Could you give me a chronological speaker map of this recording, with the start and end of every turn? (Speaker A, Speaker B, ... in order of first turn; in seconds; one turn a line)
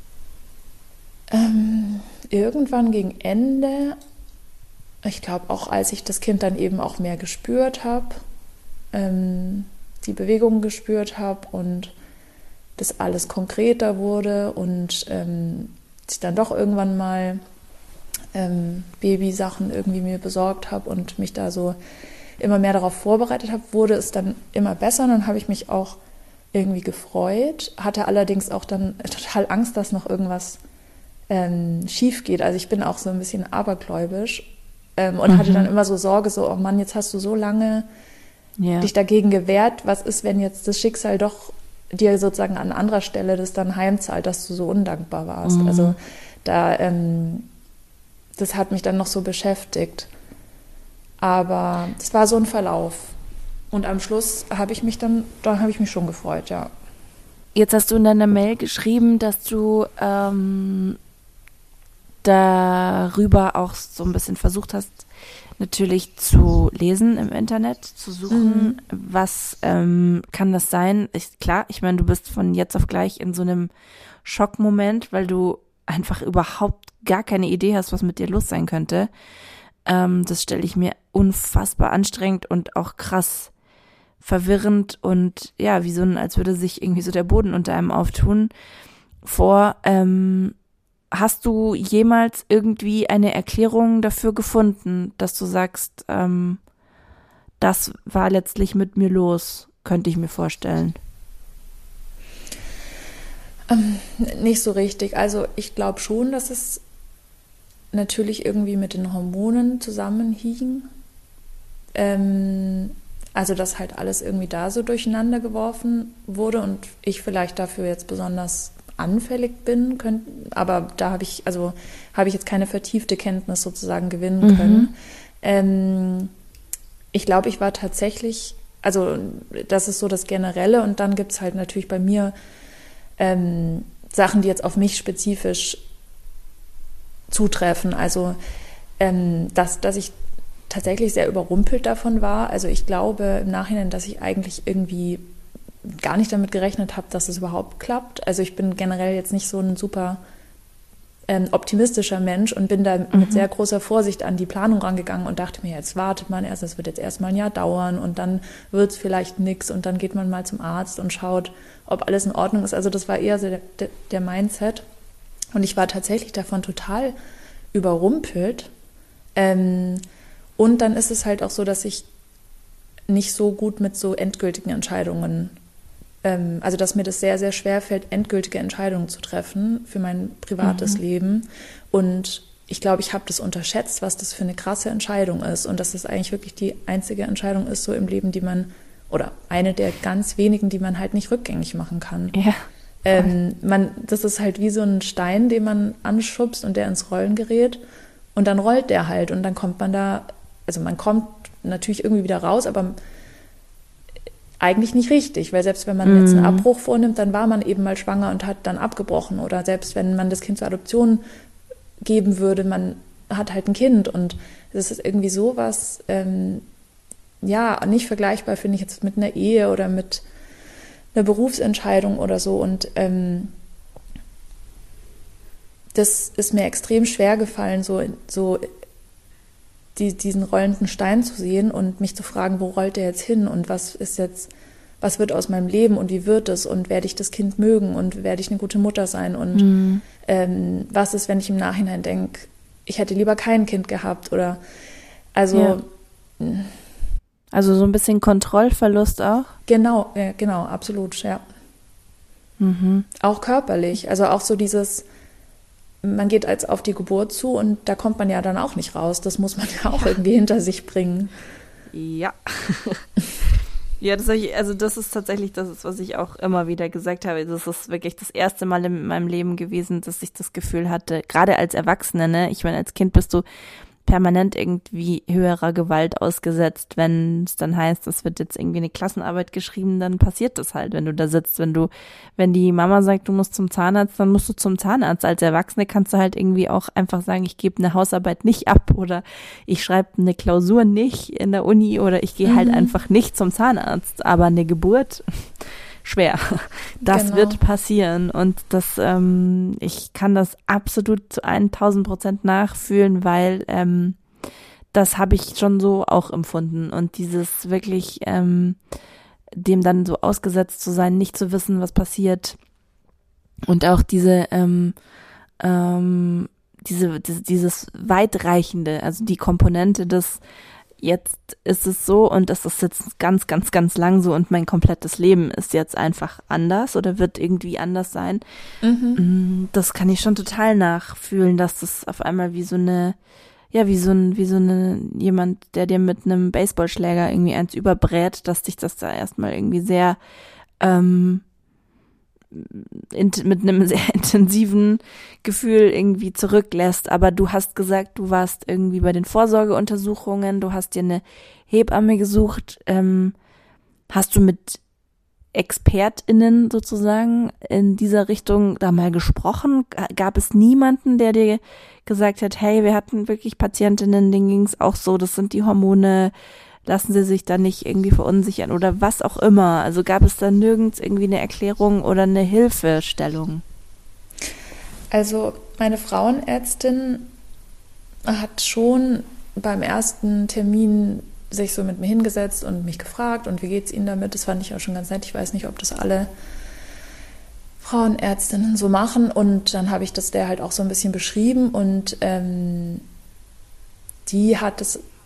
Speaker A: 1.3-4.0
Speaker A: 5.0-8.2
Speaker A: 8.9-11.9
Speaker A: 12.8-17.4
Speaker A: 18.3-21.8
Speaker A: 22.4-26.0
Speaker A: 26.5-30.6
Speaker A: 31.3-37.9
Speaker B: 35.3-35.7
Speaker B: 38.6-38.9
Speaker A: 38.8-47.5
Speaker B: 45.4-46.0
Speaker A: 48.4-50.1
Speaker A: 51.2-53.2
Speaker A: 53.7-56.7
Speaker B: 57.5-61.0
Speaker B: 62.2-65.1
Speaker B: 65.6-73.7
Speaker A: 68.3-68.8
Speaker B: 74.2-79.1
Speaker B: 79.9-83.5
Speaker B: 84.2-88.5
Speaker B: 89.2-90.6
Speaker B: 91.1-96.6
Speaker B: 97.6-101.0
Speaker A: 103.7-106.8
Speaker A: 107.9-110.9
Speaker A: 112.0-126.3
Speaker B: 124.4-124.9
Speaker A: 127.1-132.3
Speaker A: 133.2-135.8
Speaker A: 137.3-138.4
Speaker A: 139.0-140.1
Speaker A: 140.7-145.3
Speaker A: 145.8-150.2
Speaker A: 151.3-164.8
Speaker B: 153.1-153.5
Speaker A: 165.5-167.2
Speaker A: 167.7-168.7
Speaker A: 169.4-170.0
Speaker A: 170.6-172.1
Speaker A: 173.1-175.5
Speaker A: 176.2-192.4
Speaker B: 180.6-181.0
Speaker B: 192.3-193.3
Speaker A: 193.0-197.8
Speaker A: 198.3-203.0
Speaker A: 204.6-211.2
Speaker B: 206.0-206.7
Speaker A: 212.0-216.7
Speaker A: 217.4-220.2
Speaker A: 221.1-223.5
Speaker A: 225.9-228.6
Speaker A: 230.0-234.5
Speaker A: 235.0-239.7
Speaker B: 239.5-240.0
Speaker A: 240.2-244.6
Speaker A: 245.3-245.9
Speaker A: 246.4-246.8
Speaker B: 247.5-249.6
Speaker A: 249.7-251.4
Speaker B: 252.6-253.1
Speaker A: 253.2-255.1
Speaker A: 256.0-261.3
Speaker B: 261.9-263.1
Speaker B: 264.0-273.4
Speaker B: 274.1-304.2
Speaker A: 292.5-292.9
Speaker A: 297.1-297.6
Speaker B: 304.9-308.8
Speaker B: 309.5-312.6
Speaker B: 313.7-315.0
Speaker B: 315.6-320.4
Speaker B: 321.0-328.4
Speaker A: 328.8-329.2
Speaker B: 329.2-333.2
Speaker B: 333.7-340.2
Speaker B: 340.8-341.4
Speaker B: 342.5-353.4
Speaker B: 354.1-354.8
Speaker B: 355.5-366.3
Speaker B: 366.9-373.6
Speaker A: 375.1-377.3
Speaker A: 378.2-386.3
Speaker A: 387.8-393.1
Speaker A: 394.3-395.0